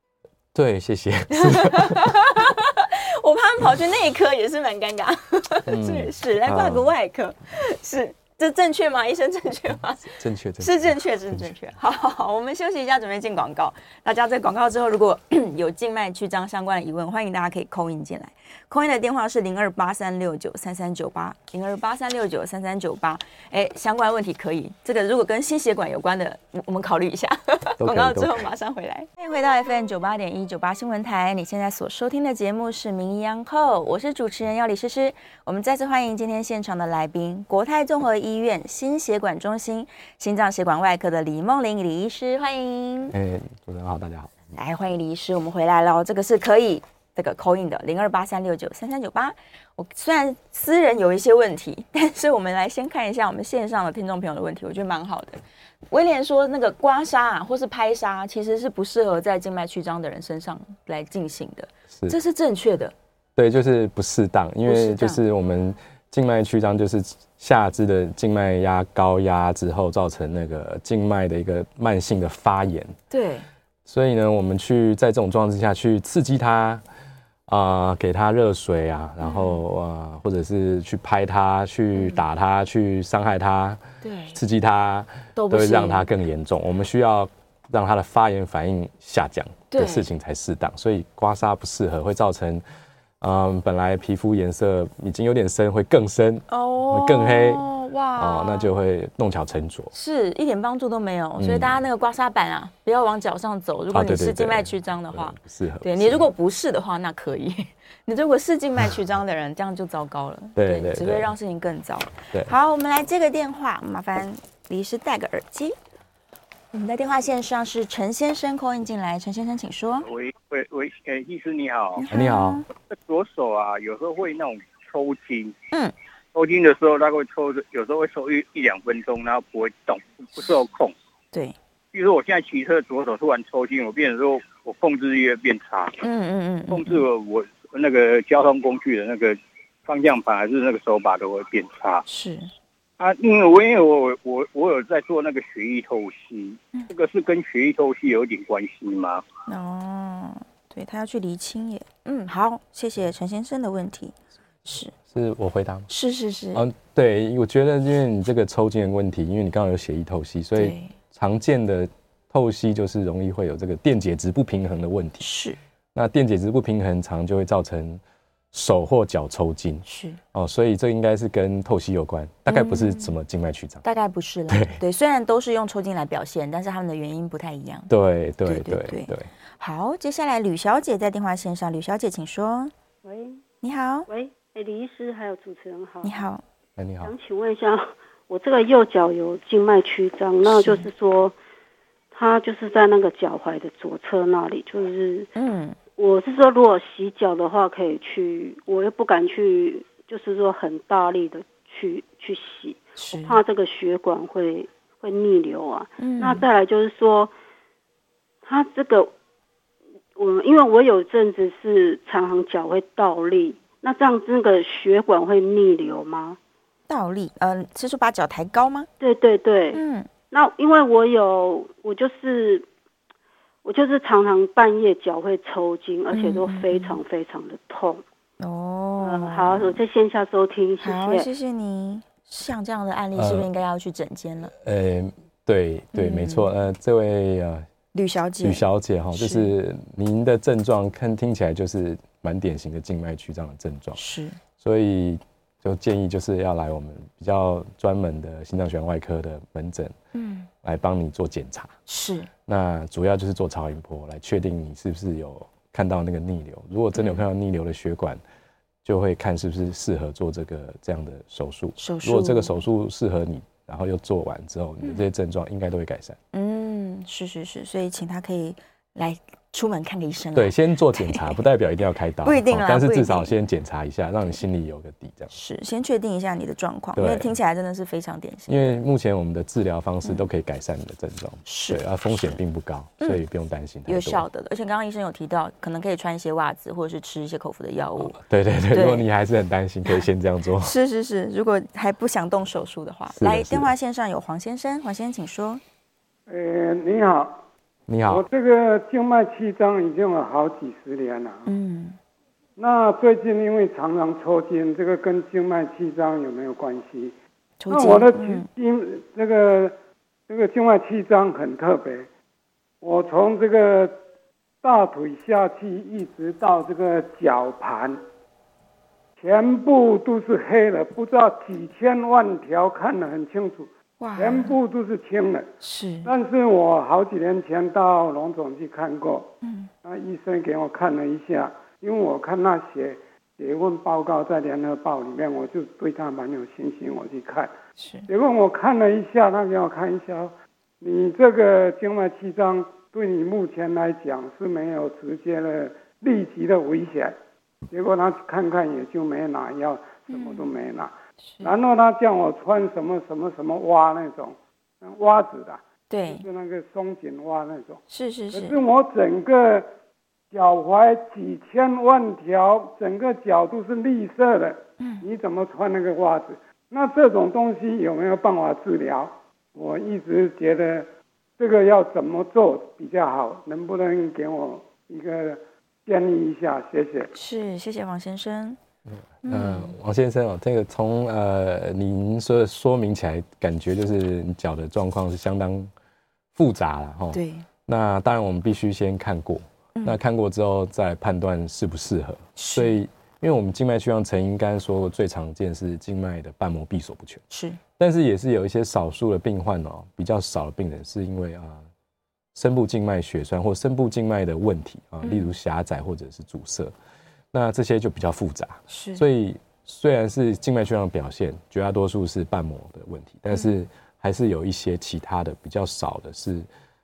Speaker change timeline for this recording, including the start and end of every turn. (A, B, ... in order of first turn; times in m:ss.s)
0:00.5-0:02.2 A
0:01.3-0:43.1 B
0:05.7-0:06.9 A
0:10.0-0:11.5 A
0:27.8-0:28.4 A
0:43.1-0:44.3 A
0:44.5-0:55.4 B
0:55.9-1:02.9 B
1:03.4-1:12.9 A
1:04.6-1:05.2 B
1:13.1-1:13.4 B
1:13.8-1:16.8 A
1:17.5-1:23.8 A
1:19.2-1:19.6 B
1:22.0-1:22.2 B
1:24.0-1:24.4 B
1:24.3-1:32.6 A
1:25.4-1:26.1 B
1:29.7-1:30.1 B
1:33.2-1:37.6 A
1:36.5-1:38.7 B
1:38.2-1:39.9 A
1:39.9-1:55.8 B
1:41.4-1:41.8 A
1:43.9-1:46.2 A
1:50.6-1:51.3 A
1:56.7-2:00.1 B
2:00.1-2:02.0 C
2:02.0-2:02.6 B
2:02.1-2:02.6 A
2:02.9-2:05.6 C
2:06.3-2:10.9 C
2:11.9-2:16.0 C
2:16.0-2:17.0 B
2:16.7-2:22.0 C
2:22.1-2:22.5 B
2:23.0-2:29.2 C
2:29.5-2:34.9 B
2:35.1-2:35.9 A
2:35.9-2:36.6 B
2:36.5-2:45.2 A
2:40.6-2:40.9 B
2:45.2-2:45.6 B
2:45.9-2:48.0 A
2:48.5-2:53.8 A
2:49.8-2:50.2 B
2:52.5-2:53.1 B
2:53.8-2:57.9 B
2:54.5-2:54.8 A
2:57.9-2:59.3 A
2:58.4-3:02.7 B
3:03.0-3:03.4 D
3:03.6-3:04.1 B
3:04.1-3:06.2 D
3:06.0-3:06.4 B
3:06.8-3:07.1 A
3:07.0-3:11.4 D
3:10.4-3:10.9 B
3:12.1-3:15.3 D
3:15.4-3:15.8 B
3:16.0-3:27.3 D
3:23.0-3:23.4 B
3:26.0-3:26.4 B
3:28.4-3:29.1 D
3:30.2-3:36.4 D
3:36.9-3:38.9 B
3:39.0-3:42.7 D
3:39.7-3:40.1 B
3:43.6-3:48.0 D
3:46.1-3:47.0 B
3:48.4-3:49.8 B
3:49.0-3:51.3 D
3:50.8-3:54.5 B
3:53.1-3:53.5 A
3:54.6-3:57.7 A
3:55.9-3:56.5 B
3:57.9-3:59.5 B
3:58.4-4:04.0 A
4:04.0-4:04.4 B
4:04.6-4:09.9 A
4:10.1-4:10.5 B
4:10.6-4:11.7 A
4:11.9-4:12.3 B
4:12.5-4:18.2 A
4:17.0-4:17.2 B
4:18.8-4:26.2 A
4:21.8-4:22.6 B
4:26.3-4:31.3 B
4:30.3-4:35.3 A
4:32.2-4:33.3 B
4:35.3-4:38.8 B
4:37.0-4:37.3 A
4:38.5-4:44.2 A
4:41.4-4:42.4 B
4:43.9-4:48.2 B
4:48.0-4:50.7 A
4:48.7-4:49.0 B
4:50.6-4:55.6 B
4:53.1-4:53.7 A
4:56.3-4:57.4 E
4:57.9-4:58.2 A
4:58.1-5:01.5 E
5:01.4-5:02.0 B
5:02.6-5:07.1 E
5:07.6-5:08.5 B
5:07.7-5:09.8 E
5:10.3-5:12.1 E
5:12.8-5:14.0 E
5:14.6-5:18.0 E
5:19.2-5:25.5 E
5:24.0-5:24.6 B
5:25.6-5:26.1 B
5:26.0-5:37.5 E
5:29.4-5:29.7 B
5:37.8-5:38.1 B
5:38.1-5:47.2 E
5:47.7-5:59.7 E
5:50.1-5:50.5 B
5:55.9-5:56.2 B
5:57.9-5:58.6 B
6:00.3-6:17.1 E
6:04.8-6:05.0 B
6:17.1-6:18.6 B
6:19.2-6:19.7 B
6:19.2-6:25.7 A
6:26.3-6:37.2 A
6:27.1-6:27.4 B
6:32.4-6:32.7 B
6:37.3-6:37.6 B
6:37.8-6:41.6 A
6:42.3-6:46.7 A
6:45.0-6:45.3 B
6:47.3-6:56.5 A
6:48.7-6:49.0 B